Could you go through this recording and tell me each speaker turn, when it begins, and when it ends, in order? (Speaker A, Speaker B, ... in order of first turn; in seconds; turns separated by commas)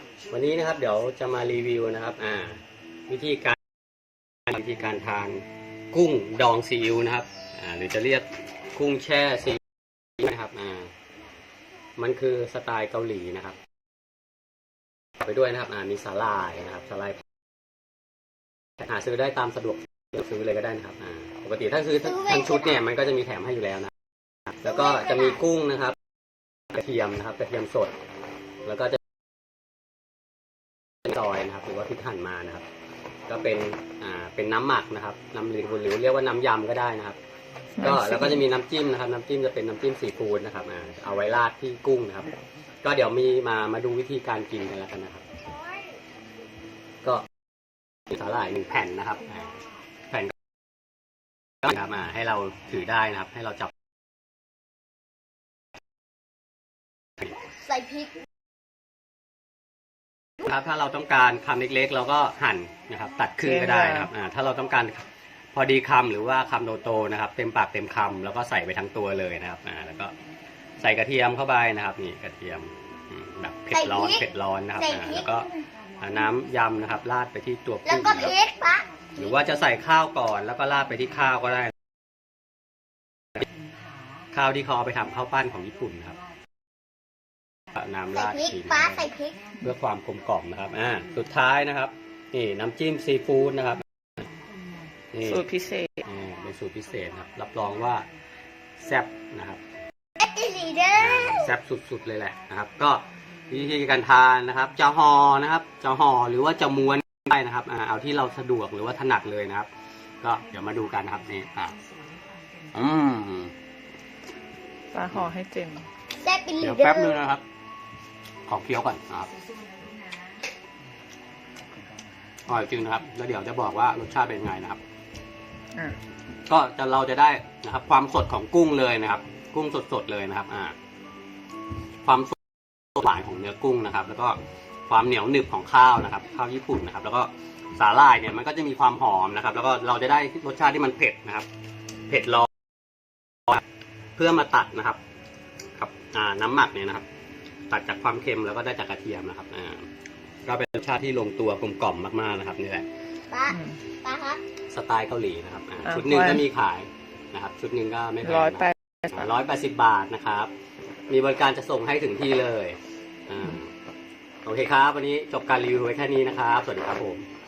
Speaker A: 0.3-3.6, Speaker A: 4.5-9.6, Speaker A: 10.2-10.9, Speaker A: 12.0-13.6, Speaker A: 15.2-17.2, Speaker A: 18.8-23.9, Speaker B: 22.0-22.8, Speaker A: 24.6-26.0, Speaker B: 24.6-25.4, Speaker A: 26.7-27.9, Speaker A: 28.6-29.0, Speaker A: 31.0-32.7, Speaker A: 33.3-37.2, Speaker A: 37.8-42.3, Speaker C: 37.8-38.4, Speaker A: 42.8-45.2, Speaker A: 48.1-49.6, Speaker A: 51.6-53.7, Speaker B: 57.5-58.2, Speaker A: 60.4-70.1, Speaker C: 63.4-64.1, Speaker A: 70.8-78.3, Speaker B: 73.7-75.3, Speaker B: 77.9-78.9, Speaker A: 79.2-81.7, Speaker A: 84.3-86.2, Speaker A: 87.7-89.1, Speaker B: 88.1-89.4, Speaker A: 89.6-93.8, Speaker A: 95.1-95.5, Speaker C: 95.3-96.0, Speaker A: 96.0-98.1, Speaker A: 98.8-99.6, Speaker B: 100.2-101.5, Speaker A: 101.0-109.7, Speaker A: 110.2-111.8, Speaker A: 112.7-113.5, Speaker C: 114.9-115.9, Speaker B: 116.2-117.2, Speaker A: 116.6-117.4, Speaker A: 118.5-119.3, Speaker A: 122.5-124.8, Speaker A: 126.5-130.8, Speaker A: 132.1-132.4, Speaker A: 132.9-141.5, Speaker A: 142.1-142.5, Speaker A: 144.2-145.0, Speaker A: 145.8-147.1, Speaker A: 147.7-149.9, Speaker A: 150.4-152.9, Speaker B: 153.3-154.4, Speaker A: 154.7-160.5, Speaker C: 155.9-156.4, Speaker C: 158.2-159.2, Speaker A: 161.1-163.7, Speaker A: 164.4-167.3